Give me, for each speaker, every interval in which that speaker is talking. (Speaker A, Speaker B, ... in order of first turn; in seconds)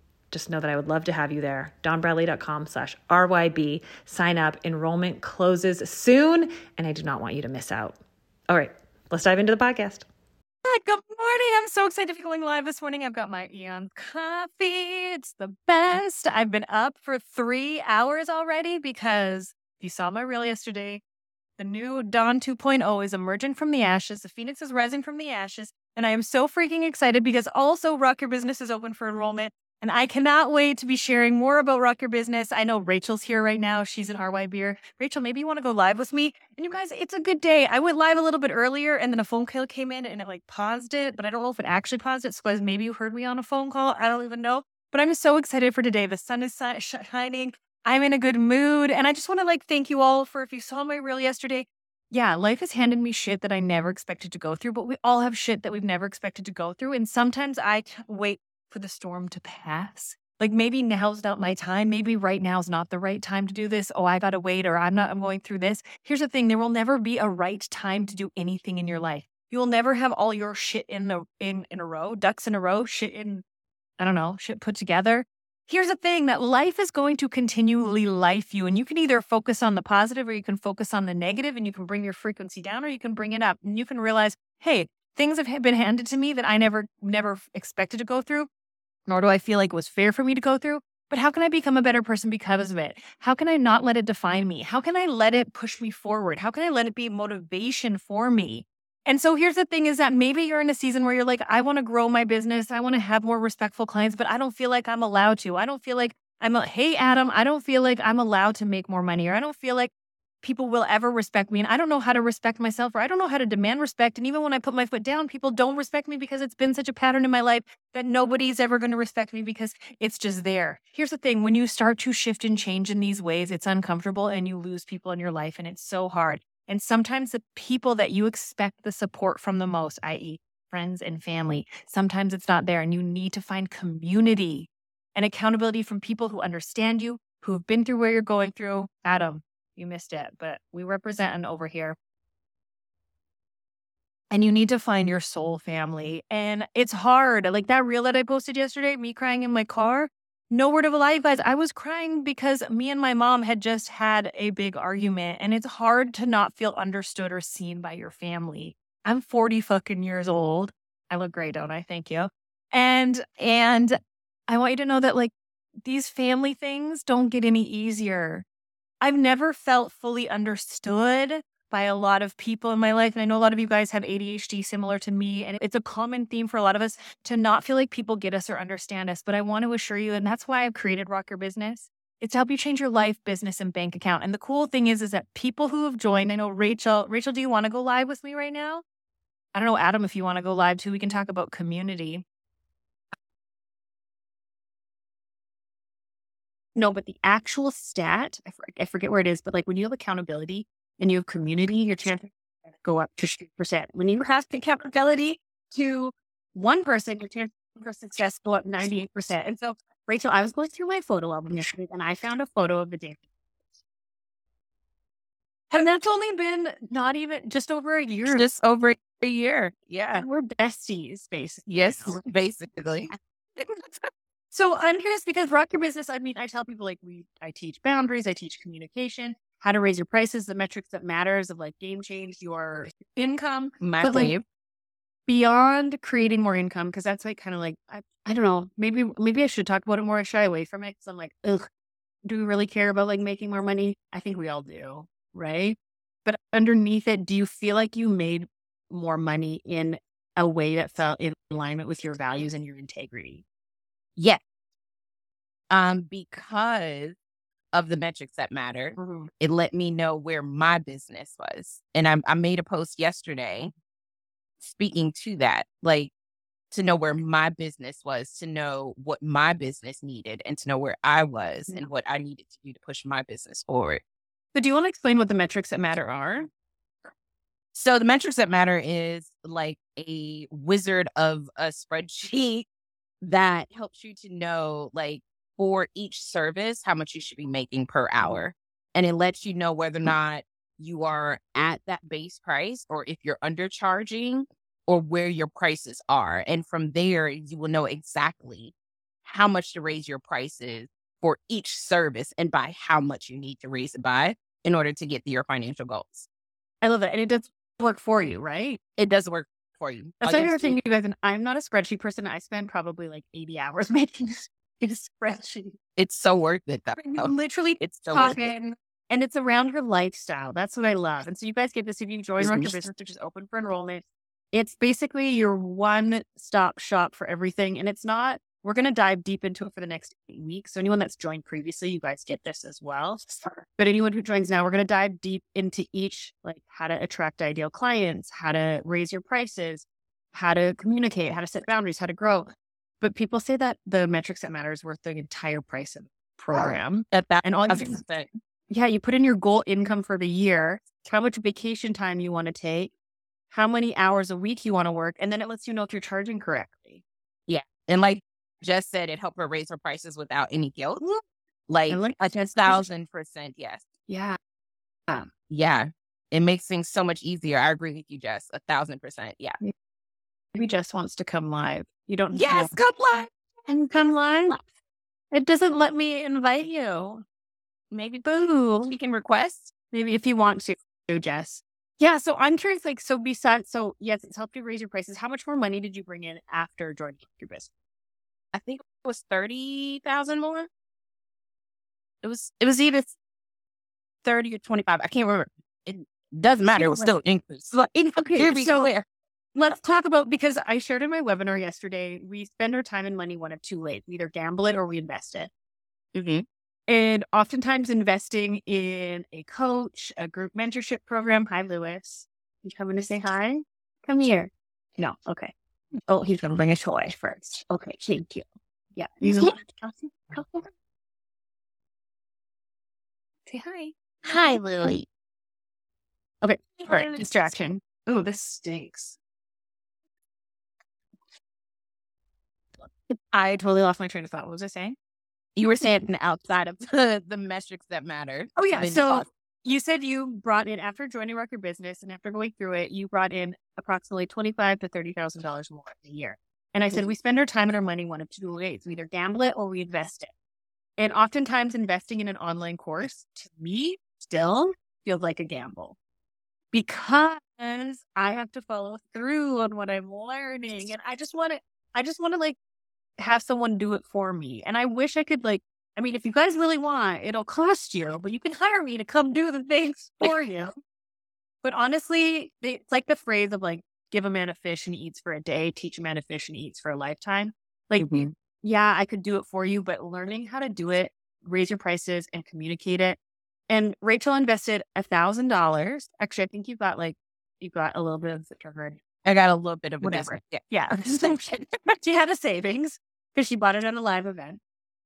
Speaker A: 0.3-8.0, 8.5-10.1
Speaker B: 10.7-21.0, 21.6-73.4, 74.0-88.5, 89.1-109.9, 110.4-142.0, 144.3-165.3, 165.8-168.4, 169.0-188.8, 189.5-192.2, 196.8-202.3, 202.8-213.2, 215.7-218.4, 220.1-222.2, 224.5-234.3, 235.3-241.7, 242.2-253.4, 259.0-259.3, 274.5-276.5, 306.8-308.8, 310.2-315.8, 317.0-348.0, 348.7-352.9, 353.5-357.0, 361.9-362.9, 364.1-364.4, 370.5-372.7, 373.7-374.6, 375.3-377.2, 379.9-387.7, 396.8-397.1, 397.9-398.9, 399.6-405.5, 406.9-415.5, 416.1-420.7, 423.5-424.6, 426.4-429.2, 433.3-435.0, 438.6-450.3, 451.0-456.0, 456.7-462.6, 463.2-470.7, 471.6-489.0, 490.0-494.6
Speaker C: 218.3-220.2, 221.7-223.1, 233.8-234.4, 255.7-257.2, 257.7-263.7, 264.6-266.1, 266.7-274.0, 277.7-282.7, 283.2-306.3, 309.0-310.8, 316.0-318.4, 322.4-322.8, 346.6-348.3, 357.5-363.9, 365.5-369.6, 372.3-373.3, 377.9-379.7, 388.5-390.7, 392.2-393.1, 394.2-399.1, 406.1-406.4, 424.2-425.1, 426.9-427.2, 435.6-439.3, 478.0-478.2, 489.2-491.4